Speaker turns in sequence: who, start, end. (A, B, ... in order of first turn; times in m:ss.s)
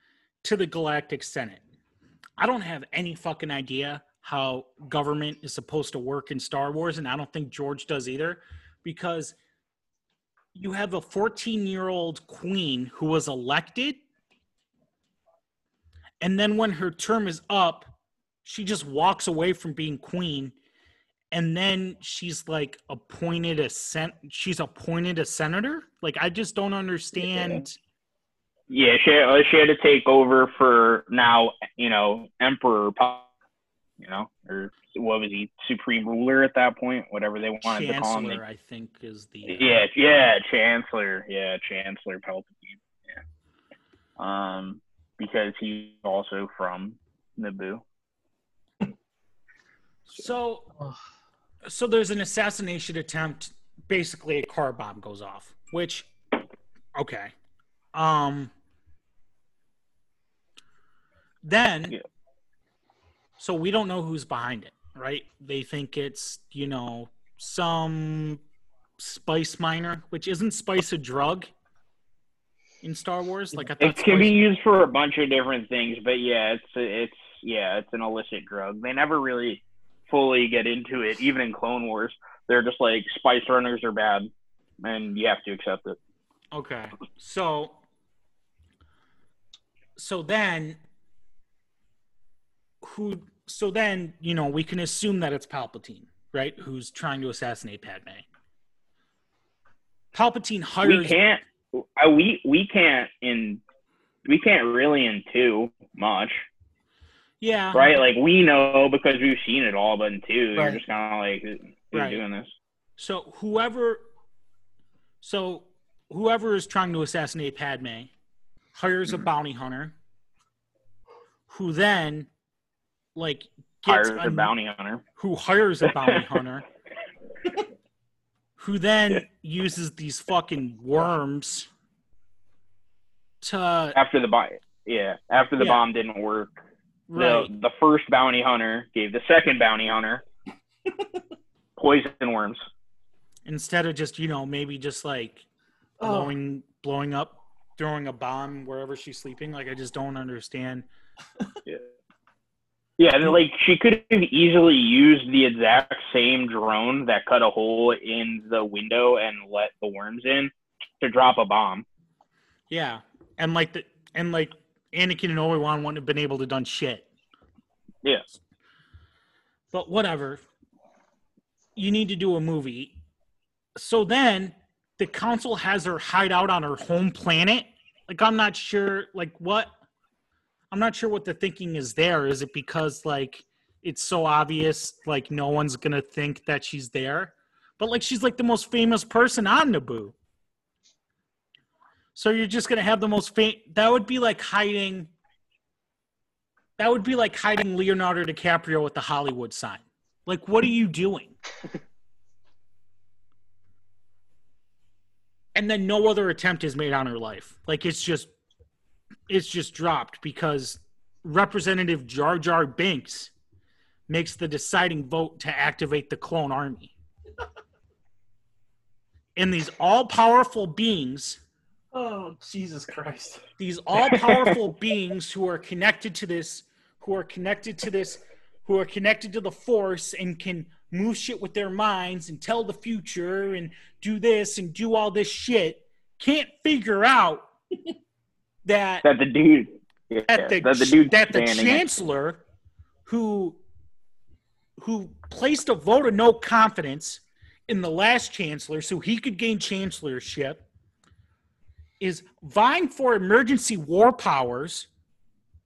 0:00.4-0:01.6 A
0:02.4-0:09.4 A
0:10.5-0:14.0 A
0:16.2-0:17.9 A
0:18.4-0:20.5 A
0:21.3-0:27.8 A
0:27.2-0:27.6 B
0:28.7-0:33.3 B
0:34.0-0:38.4 B
0:37.6-0:39.8 A
0:39.4-0:43.2 B
0:44.2-0:47.8 B
0:50.1-0:50.7 A
0:51.6-0:56.1 A
0:57.0-0:57.3 A
0:57.9-0:58.5 A
1:01.4-1:02.0 A
1:03.4-1:08.4 A
1:09.0-1:11.5 A
1:12.8-1:14.4 A
1:13.8-1:24.3 B
1:24.8-1:26.0 B
1:26.5-1:27.8 A
1:30.0-1:30.8 A
1:32.8-1:38.2 A
1:40.1-1:41.2 A
1:40.8-1:43.6 B
1:44.2-1:46.4 B
1:47.4-1:47.8 A
1:47.7-1:52.5 B
1:50.5-1:50.8 C
1:51.9-1:52.2 A
1:53.0-1:54.0 A
1:55.2-1:58.1 A
1:58.7-1:59.9 A
2:01.5-2:02.3 A
2:03.2-2:04.5 A
2:03.9-2:05.0 B
2:05.2-2:06.6 A
2:05.8-2:06.1 B
2:08.6-2:11.7 A
2:13.4-2:14.0 A
2:13.9-2:16.6 B
2:15.6-2:15.8 A
2:17.1-2:17.5 A
2:17.1-2:20.2 B
2:21.8-2:22.6 B
2:23.4-2:25.4 A
2:26.0-2:26.3 C
2:26.0-2:30.9 A
2:33.0-2:41.8 B
2:42.7-2:47.1 A
2:49.7-2:50.4 A
2:51.8-2:53.0 A
2:53.8-2:59.7 A
3:00.7-3:10.1 A
3:12.1-3:15.1 A
3:16.8-3:21.4 A
3:25.5-3:28.3 A
3:29.3-3:33.3 A
3:34.1-3:36.9 A
3:39.4-3:41.4 A
3:41.9-3:43.4 C
3:43.6-3:57.5 A
3:58.6-3:59.0 A
3:59.0-4:02.0 B
4:00.3-4:02.4 A
4:03.0-4:03.6 A
4:04.8-4:10.6 A
4:12.0-4:14.9 A